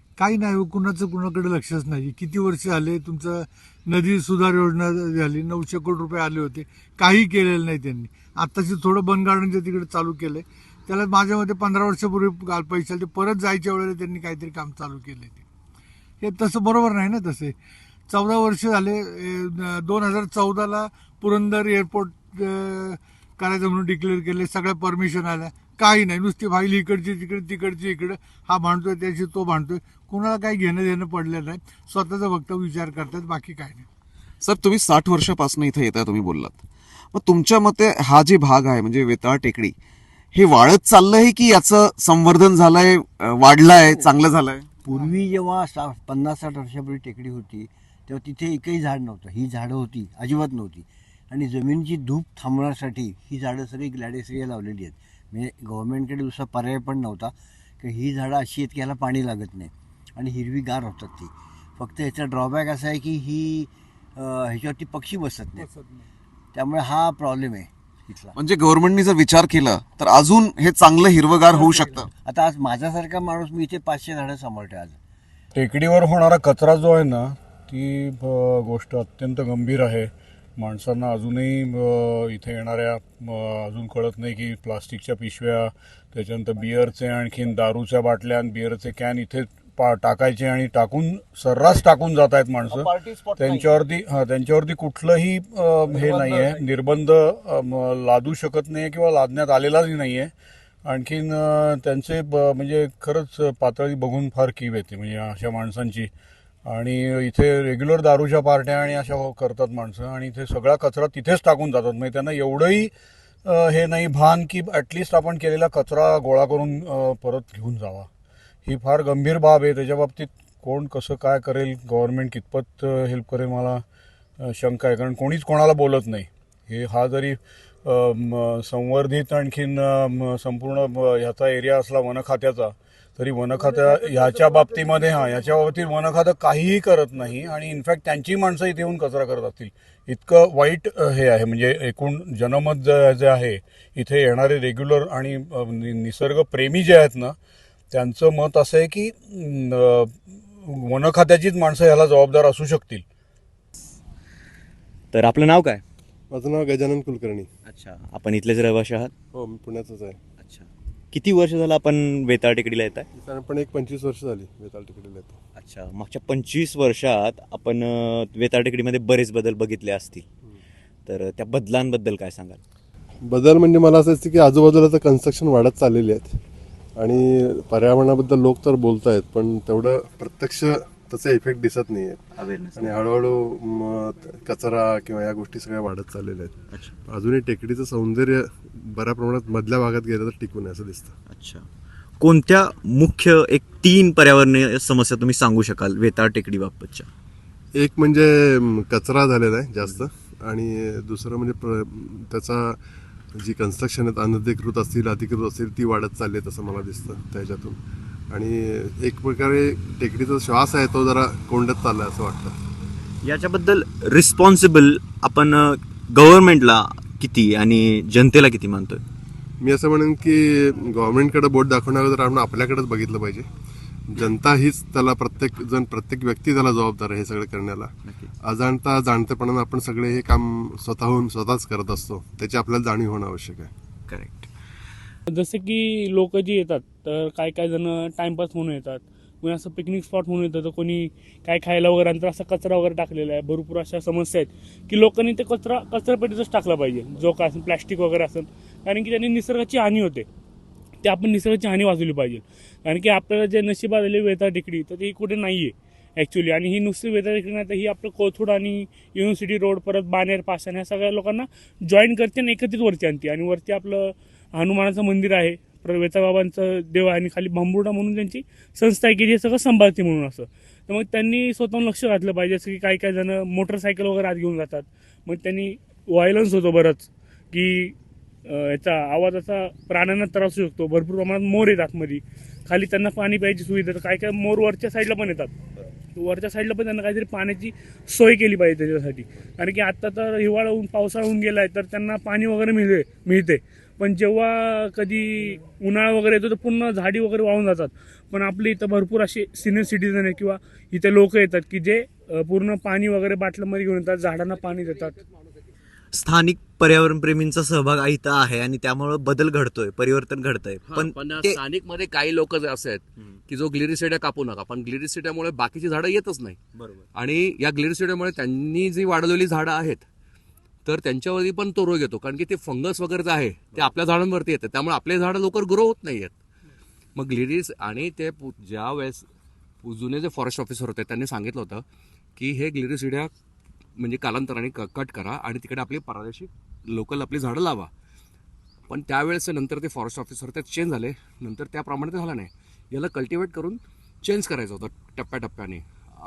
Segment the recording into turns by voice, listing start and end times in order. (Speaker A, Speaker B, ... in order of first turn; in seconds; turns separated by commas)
Speaker A: 0.2-15.4, Speaker A: 16.2-17.6, Speaker A: 18.1-33.9, Speaker B: 34.4-36.6, Speaker B: 37.1-39.7, Speaker B: 40.3-44.7, Speaker C: 44.9-65.7, Speaker C: 66.5-68.4, Speaker B: 68.4-72.1, Speaker C: 71.5-75.0, Speaker D: 75.5-100.3, Speaker B: 92.7-93.7, Speaker B: 96.0-96.6, Speaker D: 100.9-106.1, Speaker D: 106.7-112.9, Speaker D: 113.5-118.1, Speaker D: 118.7-123.8, Speaker D: 124.4-147.3, Speaker D: 147.9-153.0, Speaker E: 155.1-155.8, Speaker F: 156.3-157.5, Speaker E: 157.7-159.1, Speaker F: 159.3-160.2, Speaker E: 160.4-163.1, Speaker F: 163.2-165.4, Speaker E: 165.6-170.3, Speaker E: 171.1-172.6, Speaker F: 173.3-176.4, Speaker F: 177.0-182.2, Speaker E: 182.4-182.9, Speaker F: 182.7-186.6, Speaker F: 187.1-191.1, Speaker E: 191.3-191.7, Speaker E: 192.2-197.1, Speaker F: 197.8-202.8, Speaker F: 203.4-207.8, Speaker F: 208.3-212.5, Speaker E: 213.2-219.0, Speaker F: 219.6-223.4, Speaker F: 224.1-227.9, Speaker F: 228.5-233.7, Speaker E: 234.1-234.5, Speaker G: 235.3-250.3, Speaker G: 251.0-277.9, Speaker G: 278.5-285.6, Speaker G: 286.2-305.2, Speaker E: 306.1-311.6, Speaker H: 310.9-316.6, Speaker H: 317.1-320.0, Speaker H: 320.9-326.3, Speaker H: 327.2-329.2, Speaker H: 329.8-331.8, Speaker H: 332.4-333.2, Speaker H: 334.0-337.9, Speaker H: 338.9-343.7, Speaker H: 344.2-345.8